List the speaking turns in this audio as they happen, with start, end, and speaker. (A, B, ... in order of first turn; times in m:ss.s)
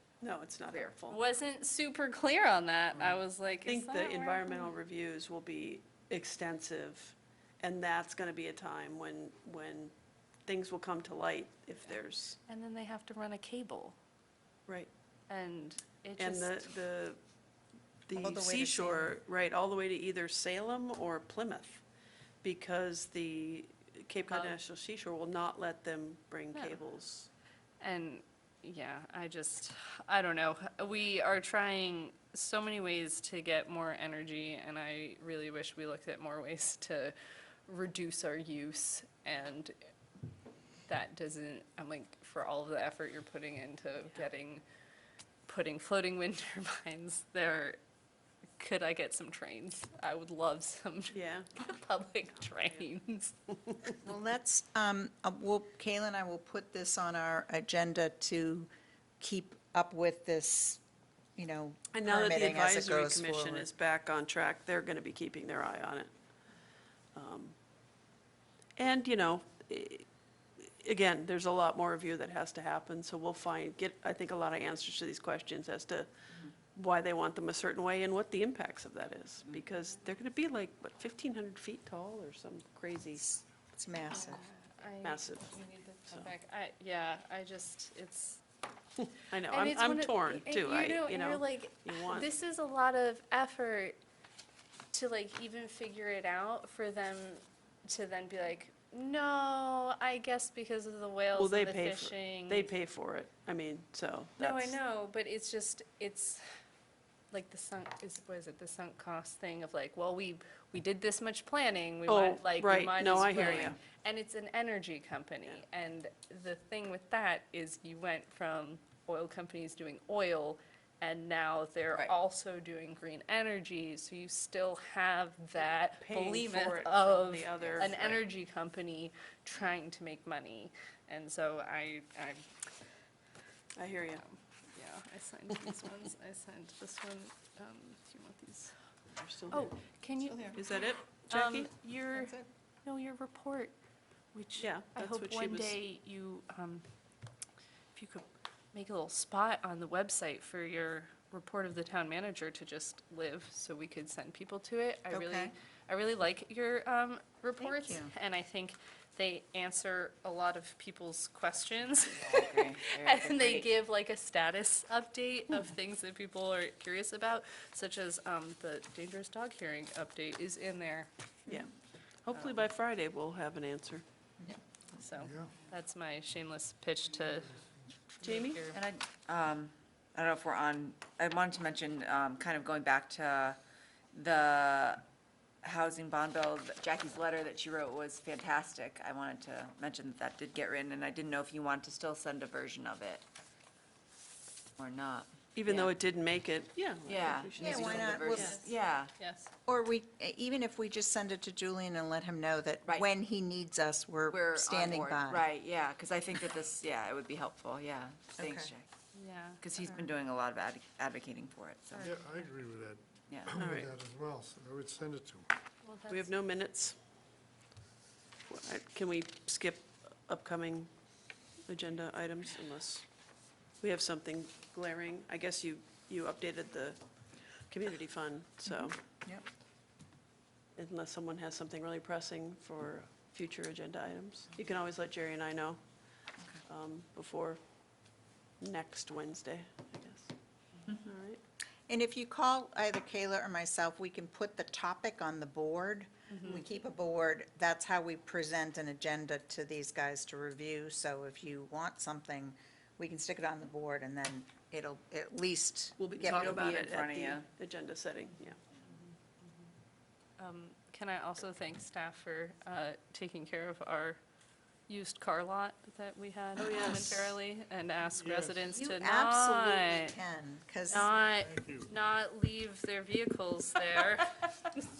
0:00.2-0:01.2 A
0:01.1-0:04.7 B
0:03.6-0:09.9 A
0:10.4-0:12.4 A
0:12.5-0:14.0 B
0:15.3-0:16.7 B
0:16.2-0:17.2 A
0:18.1-0:21.8 A
0:18.2-0:19.2 C
0:22.4-0:27.3 A
0:24.3-0:24.6 B
0:27.8-0:37.1 B
0:37.7-0:39.7 B
0:40.8-0:44.6 B
0:45.4-0:47.8 B
0:48.6-0:53.4 B
0:51.1-0:51.5 A
0:52.5-0:52.8 A
0:54.0-0:58.7 C
0:59.2-1:00.8 C
1:01.4-1:03.7 C
1:01.9-1:06.1 A
1:07.1-1:07.6 A
1:08.8-1:10.0 A
1:10.6-1:16.1 A
1:16.6-1:23.4 A
1:23.2-1:24.4 C
1:24.1-1:28.4 B
1:25.0-1:25.5 A
1:26.1-1:26.3 A
1:29.0-1:32.3 A
1:29.5-1:34.0 B
1:34.9-1:42.7 B
1:41.4-1:44.8 A
1:44.4-1:46.4 B
1:47.3-2:12.4 B
1:52.1-1:53.8 A
2:06.0-2:08.2 A
2:13.8-2:14.2 A
2:14.3-2:18.7 B
2:19.2-2:19.7 A
2:19.5-2:20.6 B
2:20.3-2:20.6 D
2:20.5-2:21.7 A
2:21.3-2:23.7 B
2:24.3-2:26.8 B
2:24.6-2:25.8 A
2:27.9-2:51.1 B
2:35.1-2:35.5 C
2:37.6-2:38.1 C
2:42.1-2:43.7 D
2:52.2-2:54.0 A
2:52.3-2:52.6 B
2:54.9-2:57.5 B
2:55.2-2:55.5 E
2:58.2-2:58.8 B
2:58.2-2:58.6 A
2:58.7-3:03.6 D
3:04.1-3:05.0 D
3:05.6-3:13.2 D
3:14.8-3:16.0 D
3:15.6-3:18.6 A
3:17.0-3:19.1 D
3:17.6-3:18.6 C
3:19.2-3:19.5 B
3:19.7-3:25.4 C
3:24.3-3:28.9 D
3:28.4-3:28.7 C
3:29.1-3:29.6 B
3:29.6-3:32.1 D
3:31.9-3:32.4 B
3:32.0-3:35.5 E
3:33.3-3:33.7 D
3:33.6-3:33.9 A
3:35.8-3:36.3 B
3:36.1-3:37.0 A
3:38.5-3:40.9 A
3:41.6-3:43.0 A
3:43.8-3:47.0 A
3:47.7-3:49.0 A
3:48.6-3:49.4 C
3:50.8-3:55.8 A
3:56.6-3:57.6 A
3:58.6-4:00.3 A
4:00.8-4:01.4 A
4:01.9-4:16.7 C
4:06.3-4:06.6 B
4:16.0-4:17.5 D
4:16.1-4:18.6 A
4:20.4-4:24.2 B
4:24.9-4:30.2 B
4:26.6-4:27.3 A
4:28.1-4:28.6 E
4:28.6-4:31.1 C
4:30.9-4:34.9 B
4:31.2-4:31.9 E